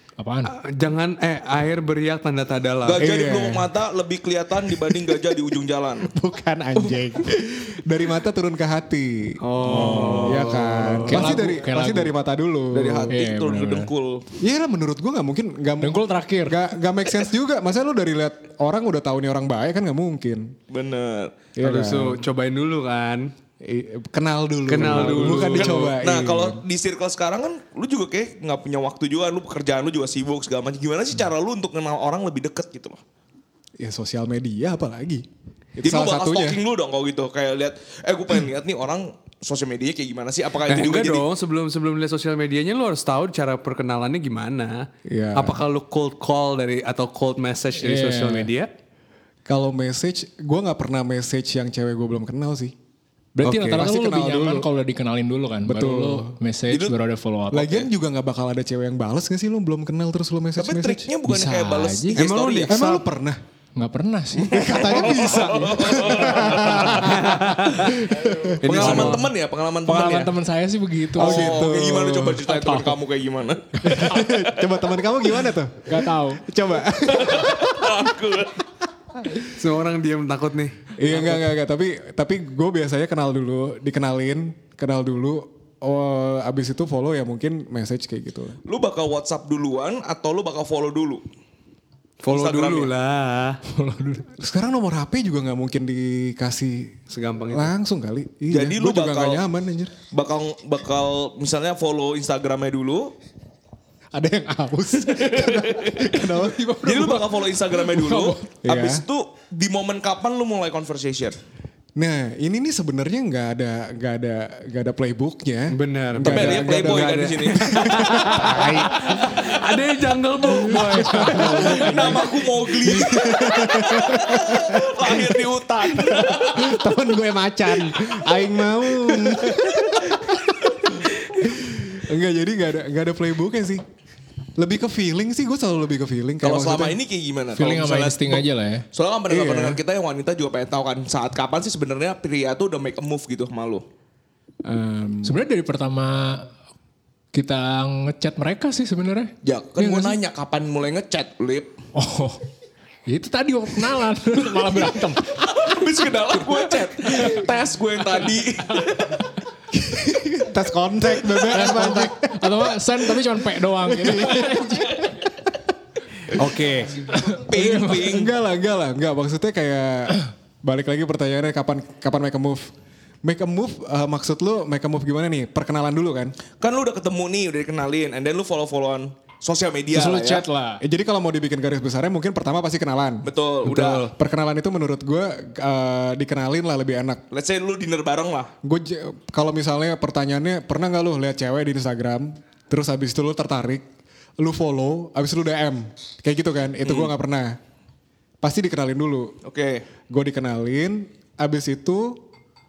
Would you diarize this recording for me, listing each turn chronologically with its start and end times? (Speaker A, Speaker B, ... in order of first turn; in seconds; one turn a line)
Speaker A: 0.2-0.5
Speaker B: 0.5-3.1
Speaker C: 2.8-6.1
Speaker D: 3.0-3.7
Speaker D: 6.1-13.1
Speaker B: 9.4-11.4
Speaker A: 9.6-10.4
Speaker A: 11.1-12.1
Speaker C: 12.7-14.2
Speaker A: 13.1-13.9
Speaker D: 14.4-20.6
Speaker A: 15.8-16.6
Speaker C: 20.7-21.4
Speaker D: 21.6-22.2
Speaker B: 21.6-23.3
Speaker D: 23.6-26.6
Speaker B: 24.7-25.9
Speaker C: 25.0-33.0
Speaker D: 33.8-35.3
Speaker D: 35.8-36.6
Speaker C: 35.8-41.3
Speaker B: 40.7-48.7
Speaker D: 45.0-45.6
Speaker A: 47.8-48.5
Speaker D: 49.5-52.8
Speaker A: 53.4-57.9
Speaker D: 53.5-54.7
Speaker D: 55.6-56.4
Speaker C: 56.7-57.0
Speaker D: 57.5-61.1
Speaker C: 60.6-62.8
Speaker A: 61.2-62.2
Speaker B: 62.1-63.0
Speaker D: 62.7-63.4
Speaker A: 63.8-64.8
Speaker D: 64.4-69.2
Speaker C: 64.6-67.0
Speaker B: 67.0-68.0
Speaker B: 68.6-69.3
Speaker C: 68.6-70.3
Speaker A: 68.8-69.2
Speaker A: 69.8-71.6
Speaker D: 71.2-72.5
Speaker C: 71.2-74.4
Speaker A: 72.5-73.0
Speaker D: 73.9-78.0
Speaker A: 75.8-76.4
Speaker C: 77.1-78.6
Speaker B: 79.5-80.9
Speaker D: 81.0-88.6
Speaker C: 88.7-91.2
Speaker B: 92.2-93.6
Speaker C: 92.3-92.9
Speaker A: 93.7-94.3
Speaker D: 94.4-97.0
Speaker B: 97.1-97.7
Speaker D: 97.5-99.9
Speaker C: 98.5-99.4
Speaker C: 100.1-103.1
Speaker D: 104.1-107.5
Speaker C: 105.1-106.2
Speaker C: 106.8-111.4
Speaker D: 108.5-109.0
Speaker D: 112.0-119.5
Speaker B: 115.7-122.2
Speaker C: 116.2-118.2
Speaker D: 120.5-122.2
Speaker A: 121.0-121.7
Speaker C: 121.6-126.8
Speaker D: 122.8-133.8
Speaker D: 134.6-137.0
Speaker C: 136.4-143.8
Speaker A: 137.6-138.8
Speaker D: 139.3-139.8
Speaker D: 144.7-145.4
Speaker A: 145.2-146.5
Speaker A: 147.3-150.2
Speaker C: 149.4-151.7
Speaker A: 151.9-152.4
Speaker A: 153.1-155.5
Speaker C: 155.4-159.3
Speaker D: 159.7-165.0
Speaker A: 161.5-165.0
Speaker B: 166.3-167.1
Speaker A: 167.1-168.1
Speaker C: 167.3-168.3
Speaker D: 167.9-176.3
Speaker C: 176.6-180.4
Speaker A: 179.9-180.8
Speaker D: 180.8-183.3
Speaker C: 183.2-184.1
Speaker B: 183.7-184.1
Speaker D: 184.1-187.2
Speaker C: 187.3-188.5
Speaker D: 188.6-193.8
Speaker D: 194.4-197.6
Speaker C: 196.8-197.1
Speaker D: 198.4-199.3
Speaker C: 199.4-199.8
Speaker D: 200.1-202.2